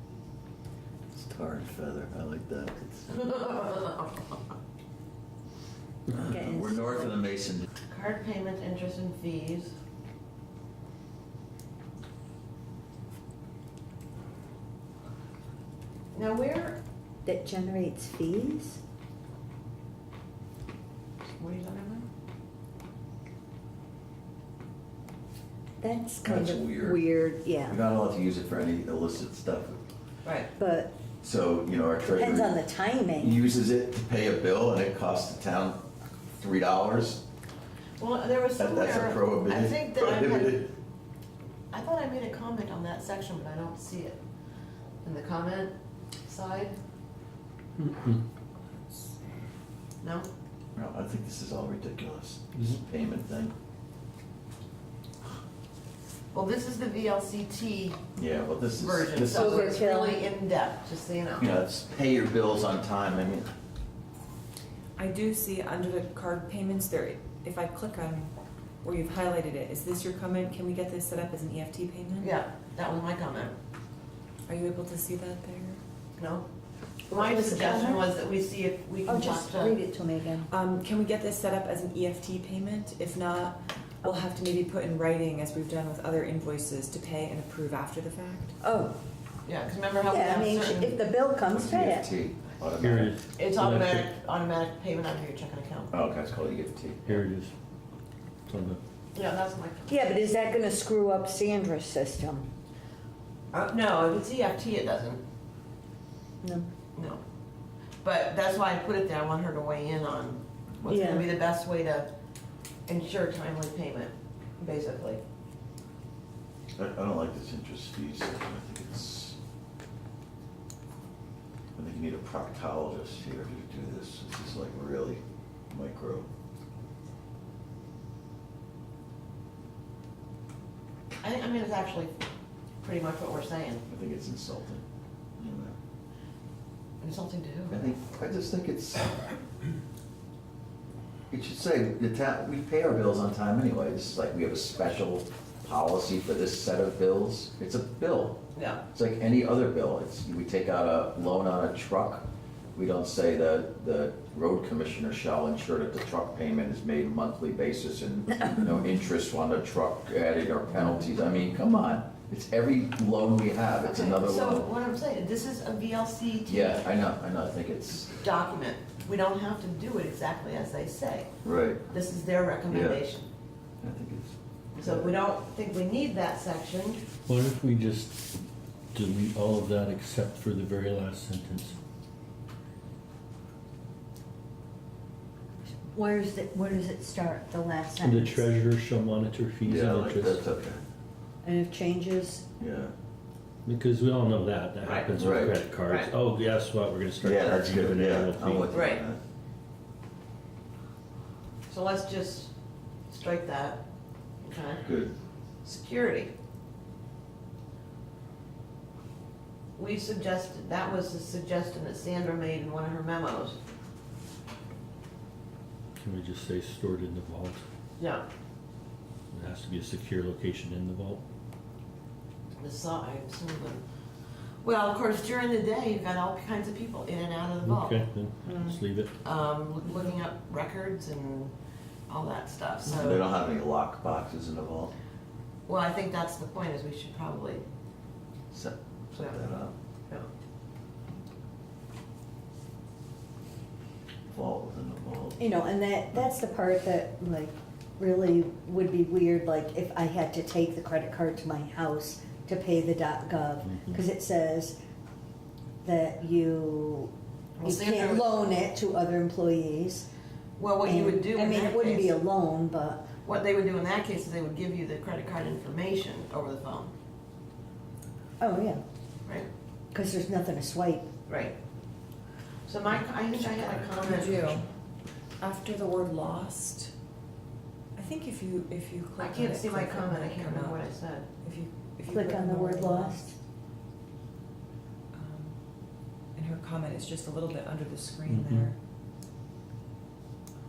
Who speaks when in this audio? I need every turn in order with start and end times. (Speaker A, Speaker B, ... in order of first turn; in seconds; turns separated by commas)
Speaker A: 1.1-3.2, Speaker B: 3.1-4.2, Speaker C: 6.1-7.2, Speaker A: 6.1-7.7, Speaker B: 7.9-9.7, Speaker B: 16.1-16.8, Speaker C: 17.2-18.8, Speaker B: 21.4-22.1, Speaker C: 25.8-27.8, Speaker A: 26.2-27.0, Speaker A: 27.7-29.8, Speaker B: 30.2-30.5, Speaker C: 30.6-30.9, Speaker A: 31.2-32.6, Speaker C: 32.0-33.4, Speaker A: 33.2-35.8, Speaker A: 36.4-37.2, Speaker B: 38.0-40.7, Speaker A: 38.6-40.7, Speaker B: 41.7-44.2, Speaker B: 45.0-45.7, Speaker B: 46.3-46.8, Speaker D: 47.8-48.2, Speaker B: 50.0-50.3, Speaker A: 50.8-53.5, Speaker D: 52.5-52.8, Speaker B: 56.3-58.0, Speaker A: 58.2-59.8, Speaker B: 58.8-61.5, Speaker C: 59.3-60.3, Speaker A: 61.4-63.5, Speaker E: 65.0-72.3, Speaker B: 72.2-73.5, Speaker E: 74.5-75.8, Speaker B: 76.2-76.5, Speaker C: 77.1-78.0, Speaker B: 77.1-79.8, Speaker C: 79.1-80.5, Speaker E: 80.5-88.6, Speaker C: 88.6-89.0, Speaker B: 89.5-91.0, Speaker C: 90.1-92.1, Speaker A: 91.5-93.1, Speaker D: 92.8-94.1, Speaker B: 93.3-95.9, Speaker A: 95.9-97.1, Speaker D: 97.0-97.5, Speaker D: 98.5-98.8, Speaker B: 99.1-100.1, Speaker C: 99.9-102.5, Speaker B: 103.5-105.2, Speaker C: 106.4-106.7, Speaker B: 107.0-107.2, Speaker B: 108.0-112.1, Speaker C: 110.9-111.3, Speaker B: 112.9-115.2, Speaker A: 116.8-119.4, Speaker A: 121.8-126.3, Speaker B: 131.2-132.1, Speaker B: 132.8-133.8, Speaker A: 133.9-134.8, Speaker A: 135.4-135.8, Speaker B: 137.0-137.8, Speaker A: 137.7-139.1, Speaker A: 141.3-164.7, Speaker B: 148.6-148.8, Speaker B: 163.8-166.9, Speaker A: 166.4-168.2, Speaker B: 168.1-171.3, Speaker A: 171.4-171.9, Speaker B: 171.9-173.3, Speaker A: 172.7-173.1, Speaker A: 173.8-175.2, Speaker B: 174.8-177.0, Speaker D: 177.3-178.2, Speaker D: 178.9-181.8, Speaker C: 185.9-188.5, Speaker D: 188.0-190.5, Speaker A: 189.7-190.8, Speaker C: 191.4-192.4, Speaker A: 192.6-192.9, Speaker D: 193.7-198.7, Speaker A: 194.9-195.6, Speaker B: 195.8-196.1, Speaker A: 197.2-199.2, Speaker B: 198.7-199.0, Speaker B: 201.7-202.5, Speaker B: 203.1-203.8, Speaker B: 204.4-204.9, Speaker A: 204.8-205.2, Speaker B: 205.6-206.3, Speaker B: 209.8-213.6, Speaker D: 216.0-217.6, Speaker B: 218.0-218.2, Speaker D: 219.3-221.2, Speaker B: 222.6-223.8, Speaker B: 224.6-228.0, Speaker D: 227.6-229.1, Speaker C: 228.5-228.8, Speaker B: 229.2-231.5, Speaker B: 232.1-233.3, Speaker A: 232.8-234.9, Speaker B: 235.7-237.6, Speaker A: 238.5-239.7, Speaker B: 239.2-239.4, Speaker A: 244.3-245.4, Speaker C: 245.4-254.8, Speaker D: 253.6-254.0, Speaker C: 255.8-257.1, Speaker B: 257.6-258.4, Speaker C: 257.6-260.1, Speaker B: 260.6-262.1, Speaker C: 260.8-263.1, Speaker B: 263.2-266.9, Speaker C: 268.4-268.8, Speaker C: 269.9-271.1, Speaker B: 271.3-271.6, Speaker B: 272.7-274.4, Speaker E: 274.0-274.7, Speaker E: 275.4-276.9, Speaker E: 277.9-280.8, Speaker B: 279.2-281.3, Speaker E: 281.4-283.2, Speaker C: 282.1-283.4, Speaker E: 285.1-285.6, Speaker E: 286.4-288.8, Speaker D: 288.3-288.7